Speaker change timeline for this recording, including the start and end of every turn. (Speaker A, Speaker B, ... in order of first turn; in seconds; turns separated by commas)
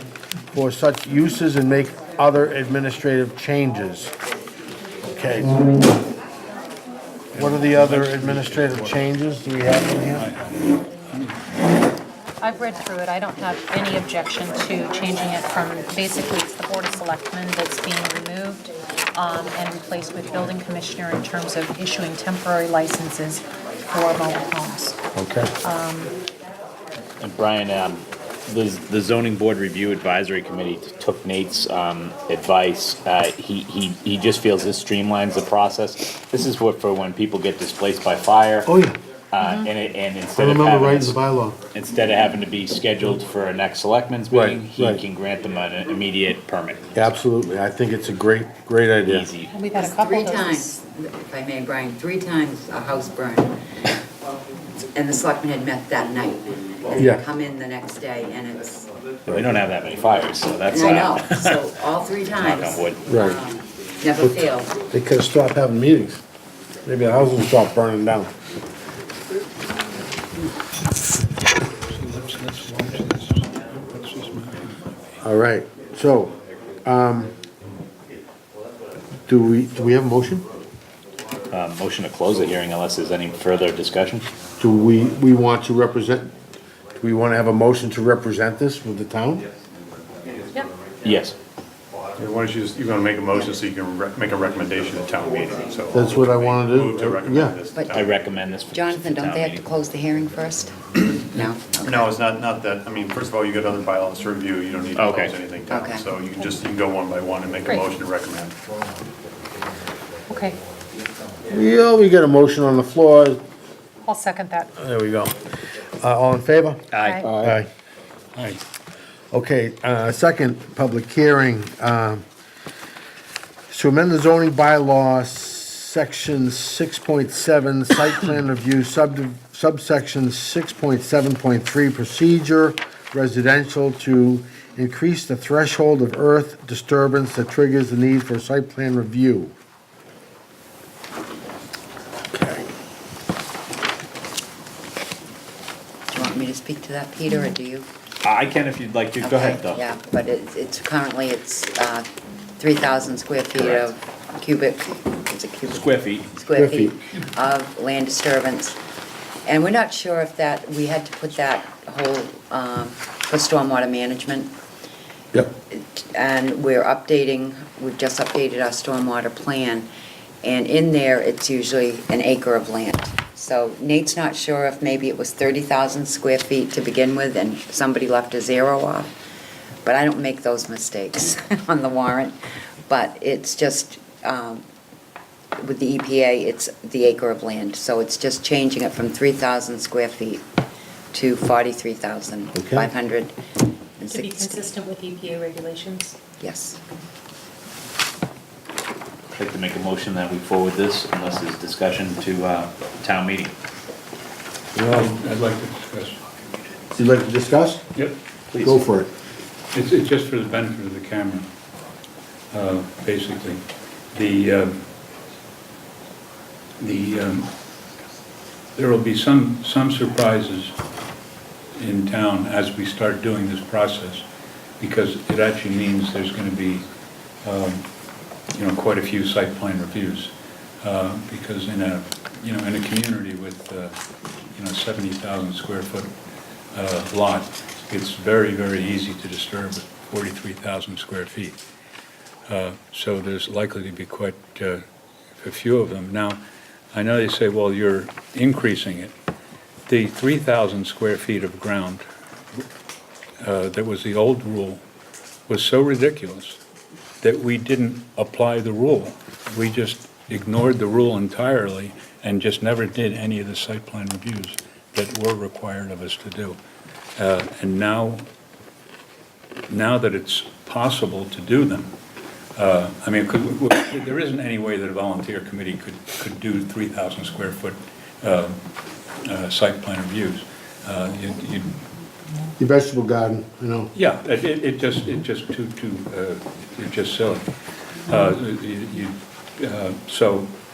Speaker A: 0.5-4.1, Speaker A: 5.1-5.7, Speaker B: 7.3-9.1, Speaker A: 7.3-10.3, Speaker B: 10.1-11.4, Speaker C: 12.4-25.0, Speaker A: 25.1-25.5, Speaker C: 25.6-26.1, Speaker D: 27.2-38.7, Speaker A: 38.6-39.0, Speaker D: 39.3-41.1, Speaker C: 39.4-39.7, Speaker A: 40.4-41.6, Speaker D: 41.7-47.1, Speaker A: 44.3-45.0, Speaker A: 46.9-49.3, Speaker D: 49.0-49.5, Speaker C: 49.5-50.8, Speaker E: 49.8-53.6, Speaker E: 54.9-58.9, Speaker A: 57.0-57.2, Speaker D: 59.2-61.6, Speaker E: 60.7-64.7, Speaker D: 62.4-63.0, Speaker A: 63.1-63.4, Speaker A: 64.9-66.2, Speaker A: 66.8-68.3, Speaker B: 71.9-75.2, Speaker A: 75.2-77.3, Speaker A: 79.3-80.5, Speaker D: 81.5-84.3, Speaker A: 84.6-86.3, Speaker A: 87.0-89.5, Speaker D: 91.0-91.3, Speaker F: 92.2-98.2, Speaker A: 95.9-97.6, Speaker D: 97.9-99.6, Speaker E: 98.7-102.2, Speaker F: 101.8-108.6, Speaker D: 104.9-105.3, Speaker E: 105.7-106.5, Speaker C: 110.3-110.6, Speaker A: 111.5-113.4, Speaker C: 114.0-114.7, Speaker A: 114.8-115.3, Speaker A: 116.0-117.7, Speaker D: 116.9-117.5, Speaker C: 117.0-117.3, Speaker B: 118.3-118.6, Speaker A: 119.3-122.2, Speaker A: 123.7-139.5, Speaker A: 142.3-142.7, Speaker E: 146.1-147.9, Speaker D: 148.2-149.8, Speaker E: 149.2-152.1, Speaker E: 152.6-158.8, Speaker D: 153.6-153.8, Speaker D: 155.7-156.3, Speaker A: 156.5-156.9, Speaker E: 159.4-164.5, Speaker E: 165.7-169.9, Speaker E: 170.4-179.1, Speaker E: 179.8-182.3, Speaker E: 182.9-184.6, Speaker E: 185.6-190.4, Speaker E: 191.1-193.3, Speaker A: 192.6-192.9, Speaker E: 194.0-194.7, Speaker C: 194.1-196.2, Speaker E: 196.4-196.8, Speaker D: 199.3-203.5, Speaker A: 204.7-205.1, Speaker B: 204.9-206.2, Speaker A: 206.9-207.8, Speaker D: 208.5-208.8, Speaker A: 208.6-209.1, Speaker B: 209.7-211.5, Speaker B: 212.5-214.8, Speaker B: 216.8-217.5, Speaker B: 218.8-220.7, Speaker B: 221.7-224.2, Speaker B: 224.8-226.9, Speaker B: 227.4-227.8, Speaker B: 228.5-233.9, Speaker B: 234.5-236.1, Speaker B: 236.7-241.6, Speaker B: 242.5-244.8, Speaker B: 245.4-249.1, Speaker B: 249.9-252.6, Speaker B: 253.4-254.8, Speaker B: 255.5-256.6, Speaker B: 257.2-266.6, Speaker B: 267.2-268.2, Speaker B: 269.7-271.9, Speaker B: 272.6-278.6, Speaker B: 279.2-281.7, Speaker A: 282.6-283.9, Speaker B: 283.9-287.5, Speaker B: 288.1-290.5